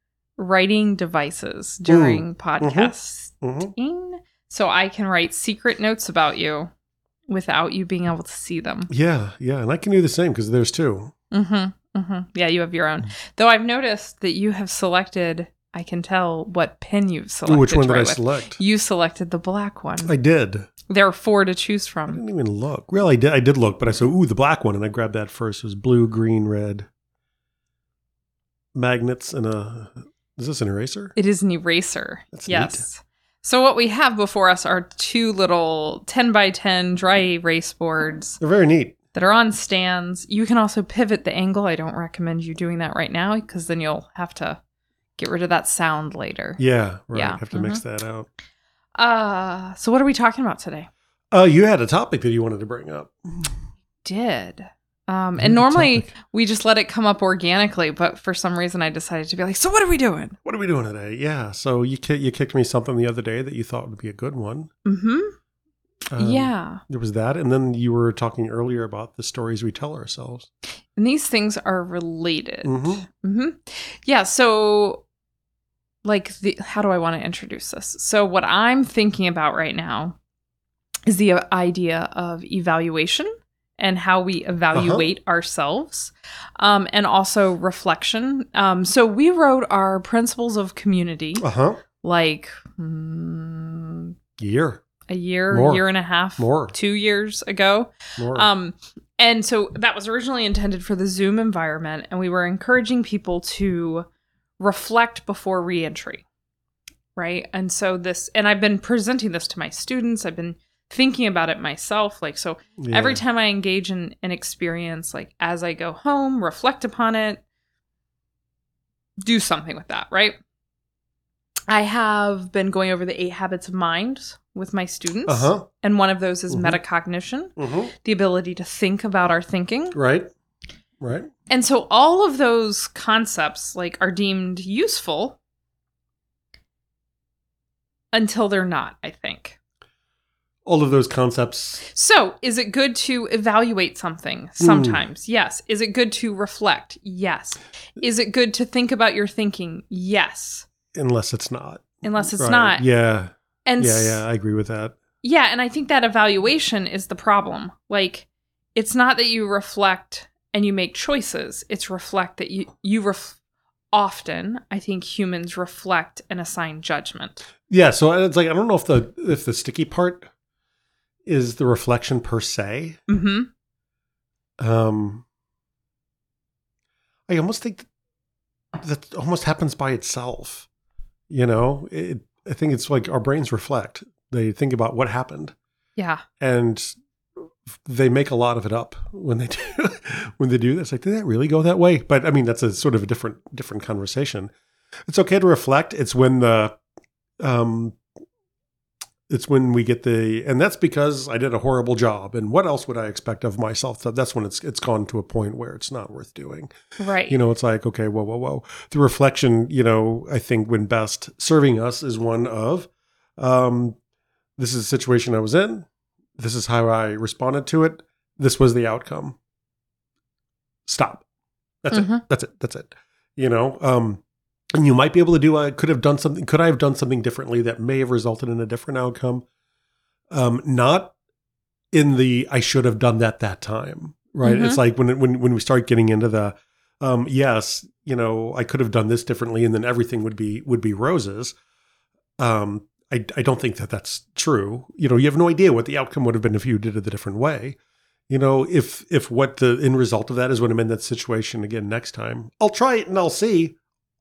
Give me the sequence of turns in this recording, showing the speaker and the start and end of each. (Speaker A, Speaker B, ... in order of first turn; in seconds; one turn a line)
Speaker A: 0.4-6.7
Speaker B: 1.9-3.7
Speaker A: 7.3-8.9
Speaker B: 8.9-11.1
Speaker A: 11.3-20.1
Speaker B: 17.4-18.6
Speaker B: 20.0-20.7
Speaker A: 20.9-22.2
Speaker B: 22.1-26.9
Speaker B: 28.7-31.1
Speaker A: 31.1-38.4
Speaker B: 32.3-32.8
Speaker B: 38.4-39.0
Speaker A: 39.1-44.6
Speaker A: 45.2-46.6
Speaker B: 46.6-48.3
Speaker A: 47.1-47.8
Speaker A: 49.0-50.9
Speaker B: 51.3-53.5
Speaker A: 54.0-60.4
Speaker B: 55.4-56.1
Speaker B: 60.4-64.7
Speaker A: 64.8-65.3
Speaker B: 66.1-70.5
Speaker A: 66.2-66.8
Speaker A: 70.9-75.0
Speaker B: 72.6-73.1
Speaker A: 76.0-80.2
Speaker A: 81.0-91.4
Speaker B: 84.7-85.0
Speaker B: 91.4-91.8
Speaker A: 92.0-94.1
Speaker B: 94.4-94.8
Speaker A: 95.1-104.1
Speaker B: 95.5-95.8
Speaker B: 96.4-96.7
Speaker B: 98.2-98.5
Speaker A: 104.6-106.2
Speaker A: 107.2-117.4
Speaker B: 112.8-113.2
Speaker A: 119.2-120.4
Speaker A: 121.7-129.9
Speaker B: 125.3-125.7
Speaker B: 126.5-126.8
Speaker B: 127.5-127.9
Speaker B: 129.9-130.3
Speaker B: 131.0-131.3
Speaker A: 131.5-135.4
Speaker A: 138.1-139.6
Speaker B: 140.7-141.8
Speaker A: 141.8-150.7
Speaker B: 144.6-145.0
Speaker B: 150.9-155.0
Speaker A: 152.0-152.8
Speaker A: 153.6-154.2
Speaker A: 155.2-163.4
Speaker A: 163.9-167.4
Speaker B: 167.7-170.3
Speaker B: 171.2-173.0
Speaker A: 173.1-173.5
Speaker B: 174.6-175.2
Speaker B: 177.3-177.9
Speaker B: 178.8-180.7
Speaker B: 181.3-185.6
Speaker A: 185.9-186.2
Speaker B: 186.4-187.0
Speaker B: 187.7-194.5
Speaker B: 195.1-196.8
Speaker B: 197.4-198.0
Speaker B: 199.3-206.7
Speaker A: 207.0-207.3
Speaker B: 207.2-214.0
Speaker B: 214.6-219.4
Speaker B: 220.8-221.2
Speaker B: 221.8-224.2
Speaker A: 221.9-222.2
Speaker B: 224.7-229.4
Speaker B: 230.3-231.1
Speaker B: 231.9-241.6
Speaker A: 234.4-234.8
Speaker B: 242.4-247.8
Speaker B: 248.3-253.8